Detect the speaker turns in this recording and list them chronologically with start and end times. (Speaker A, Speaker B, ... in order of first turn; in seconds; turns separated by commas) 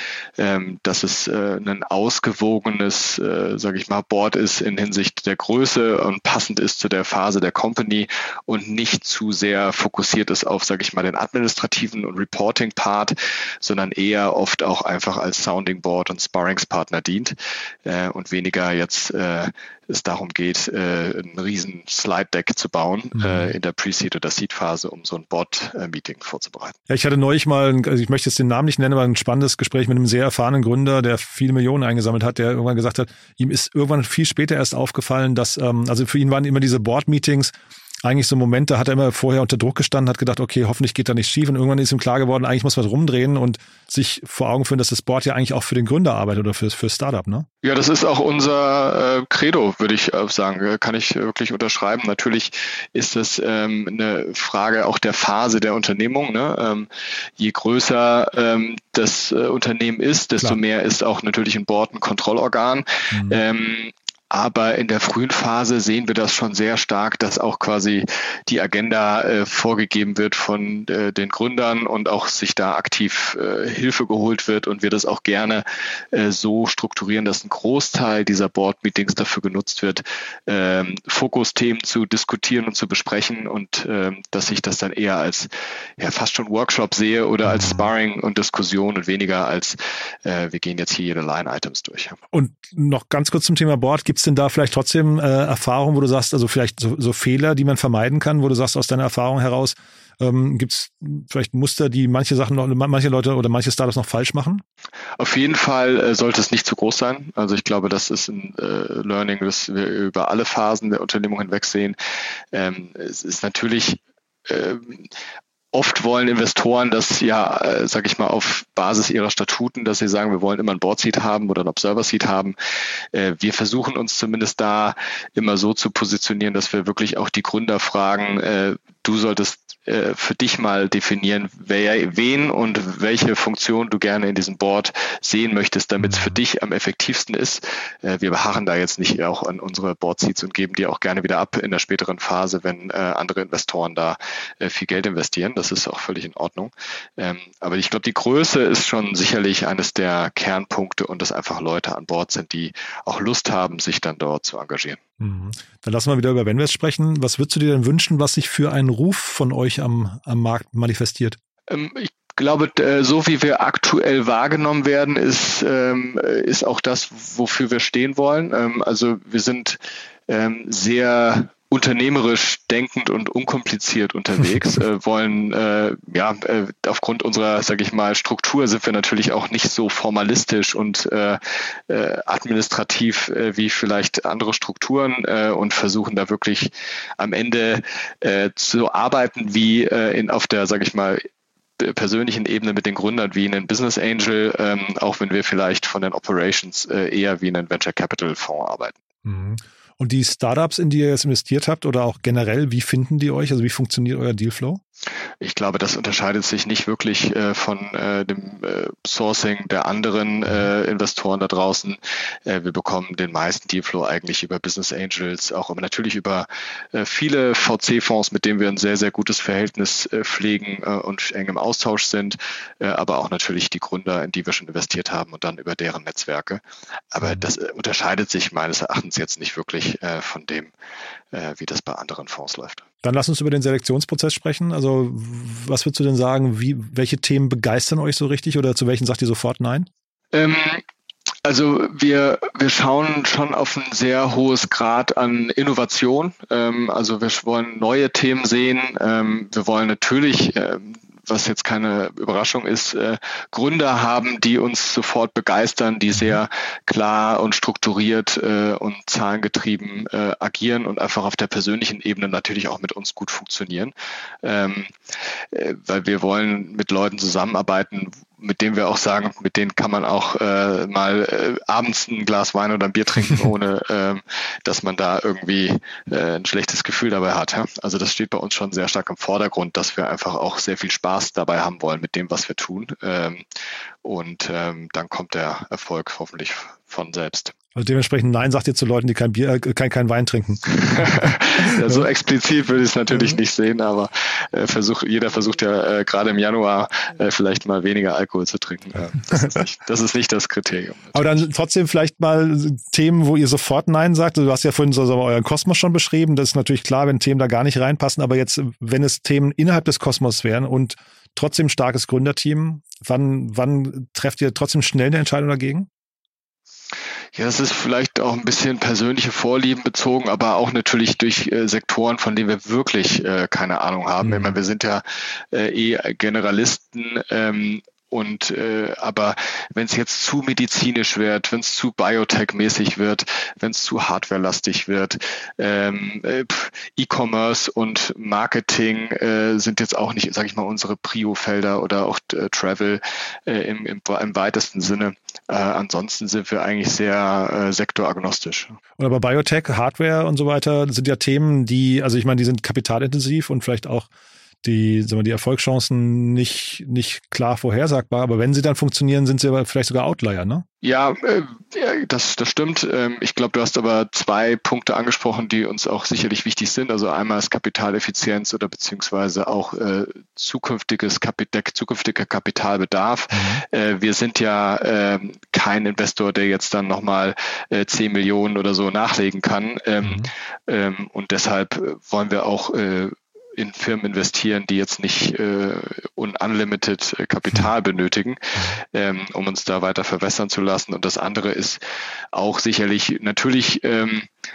Speaker A: 0.4-26.7, Speaker B: 23.2-23.5, Speaker B: 26.9-47.5, Speaker A: 47.6-92.2, Speaker B: 63.1-63.4, Speaker B: 87.4-87.9, Speaker B: 92.3-104.6, Speaker A: 105.2-112.0, Speaker A: 112.5-115.1, Speaker A: 115.7-122.5, Speaker A: 123.1-155.0, Speaker B: 136.0-136.4, Speaker B: 155.2-161.4, Speaker A: 161.7-191.2, Speaker A: 191.8-198.9, Speaker B: 199.2-204.8, Speaker A: 205.4-230.7, Speaker A: 231.3-232.8, Speaker B: 233.0-239.9, Speaker A: 240.3-240.8, Speaker A: 241.4-264.9, Speaker A: 265.5-283.4, Speaker A: 284.0-287.5, Speaker B: 287.7-292.1, Speaker A: 290.7-301.4, Speaker B: 301.1-315.9, Speaker A: 317.3-348.8, Speaker B: 324.2-324.6, Speaker B: 349.0-354.1, Speaker B: 354.6-360.6, Speaker A: 360.8-391.8, Speaker B: 373.3-373.6, Speaker B: 380.0-380.3, Speaker A: 392.3-394.3